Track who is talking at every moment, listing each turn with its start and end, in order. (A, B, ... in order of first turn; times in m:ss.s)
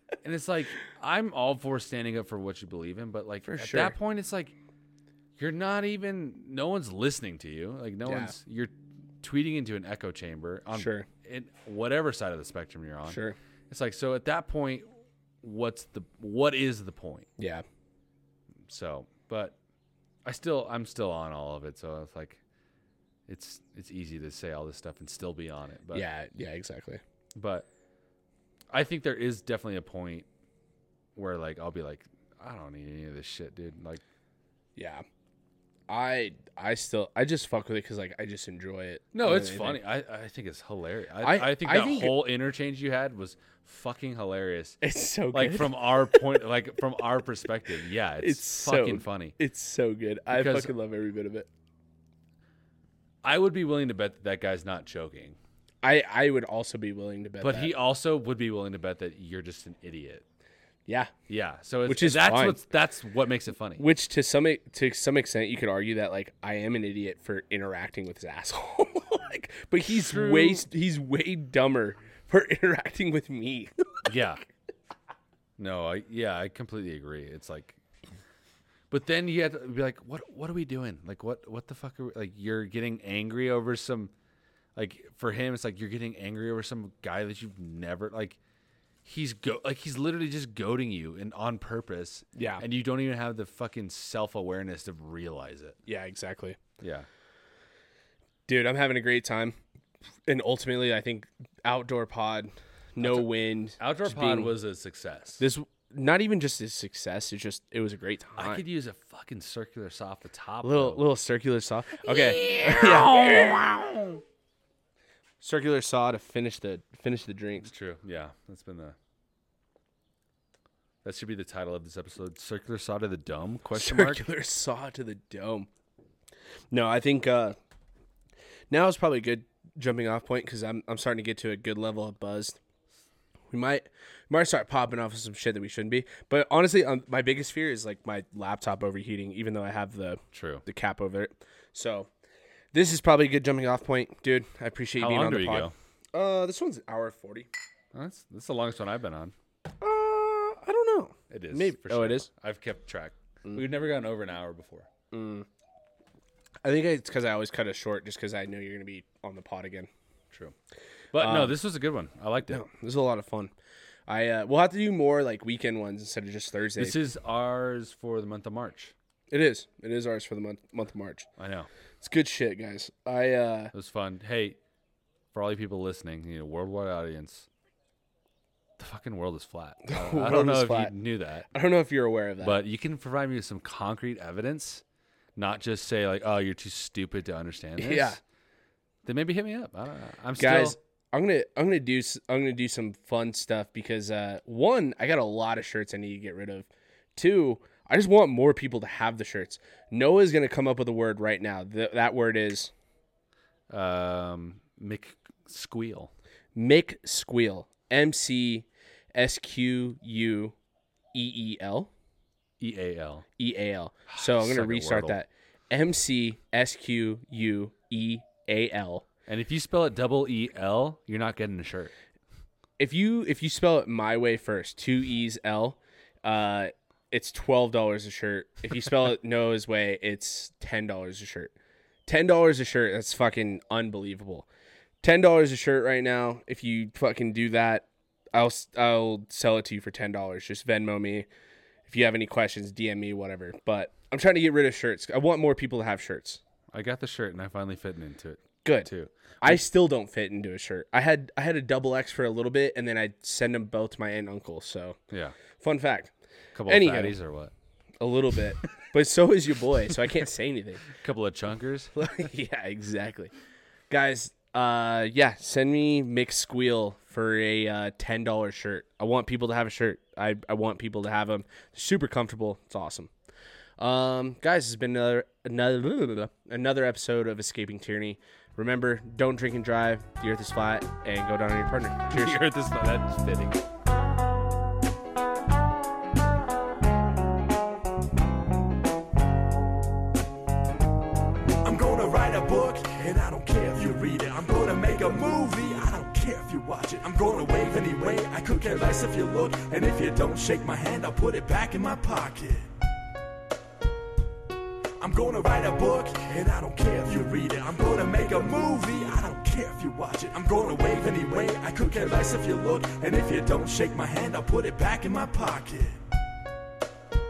0:00.2-0:04.5 A
0:03.4-0:04.0 B
0:05.4-0:14.9 A
0:08.1-0:08.4 B
0:10.7-0:11.1 B
0:13.1-0:13.4 B
0:15.4-0:17.3 A
0:17.4-0:17.6 B
0:18.7-0:19.6 A
0:20.2-0:22.4 A
0:23.3-0:26.0 A
0:25.9-0:27.0 B
0:27.4-0:27.7 A
0:28.7-0:30.3 A
0:31.2-0:34.0 A
0:34.8-0:35.0 B
0:35.9-0:39.8 B
0:39.1-0:44.8 A
0:41.2-0:42.2 B
0:44.8-0:46.3 B
0:45.3-0:49.4 A
0:48.2-0:51.5 B
0:50.3-0:50.7 A
0:53.2-0:55.4 A
0:55.8-0:57.7 B
0:57.4-1:00.2 A
1:01.3-1:03.8 A
1:01.9-1:02.6 B
1:03.8-1:14.1 B
1:09.9-1:10.6 A
1:14.1-1:14.4 A
1:15.6-1:17.8 A
1:18.9-1:24.1 A
1:24.8-1:28.4 A
1:29.0-1:35.8 A
1:32.4-1:32.6 B
1:35.9-1:36.6 B
1:36.8-1:37.1 A
1:38.5-1:39.6 B
1:40.3-1:44.5 B
1:43.0-1:45.4 A
1:45.4-1:48.6 B
1:48.4-1:51.1 A
1:50.6-1:53.6 B
1:52.0-1:54.2 A
1:55.4-1:57.7 B
1:57.6-1:59.0 A
2:01.0-2:04.2 A
2:03.7-2:05.7 B
2:06.7-2:07.6 B
2:08.7-2:12.6 B
2:13.5-2:22.1 B
2:20.3-2:20.6 A
2:22.7-2:27.5 B
2:25.0-2:25.7 A
2:27.9-2:29.3 A
2:29.8-2:32.3 B
2:31.3-2:34.9 A
2:35.1-2:35.5 B
2:36.6-2:39.9 B
2:41.1-2:42.6 A
2:41.2-2:41.6 B
2:42.5-2:43.5 B
2:44.1-2:47.0 B
2:46.8-2:48.9 A
2:49.3-2:51.3 B
2:51.4-2:51.7 A
2:52.0-2:53.7 B
2:53.7-2:54.6 A
2:55.3-2:57.5 A
2:58.8-3:01.5 A
2:59.9-3:00.9 B
3:01.5-3:02.6 B
3:02.4-3:04.8 A
3:05.4-3:08.2 A
3:07.8-3:08.2 B
3:09.0-3:10.8 A
3:10.4-3:22.7 B
3:23.7-3:26.1 A
3:26.6-3:30.6 B
3:31.1-3:31.9 B
3:32.6-3:33.3 A
3:33.4-3:39.1 B
3:34.1-3:35.2 A
3:39.3-3:41.9 A
3:42.8-3:51.5 B
3:52.1-3:54.5 B
3:55.0-4:01.3 B
4:01.9-4:06.4 B
4:06.7-4:09.6 A
4:08.6-4:15.0 B
4:15.1-4:15.4 A
4:15.6-4:16.1 B
4:16.6-4:17.5 A
4:16.7-4:17.2 B
4:18.0-4:20.9 B
4:20.9-4:22.0 A
4:22.0-4:23.3 B
4:23.9-4:33.1 B
4:33.8-4:42.4 B
4:42.1-4:43.6 A
4:51.6-5:02.7 C
5:05.0-5:16.0 C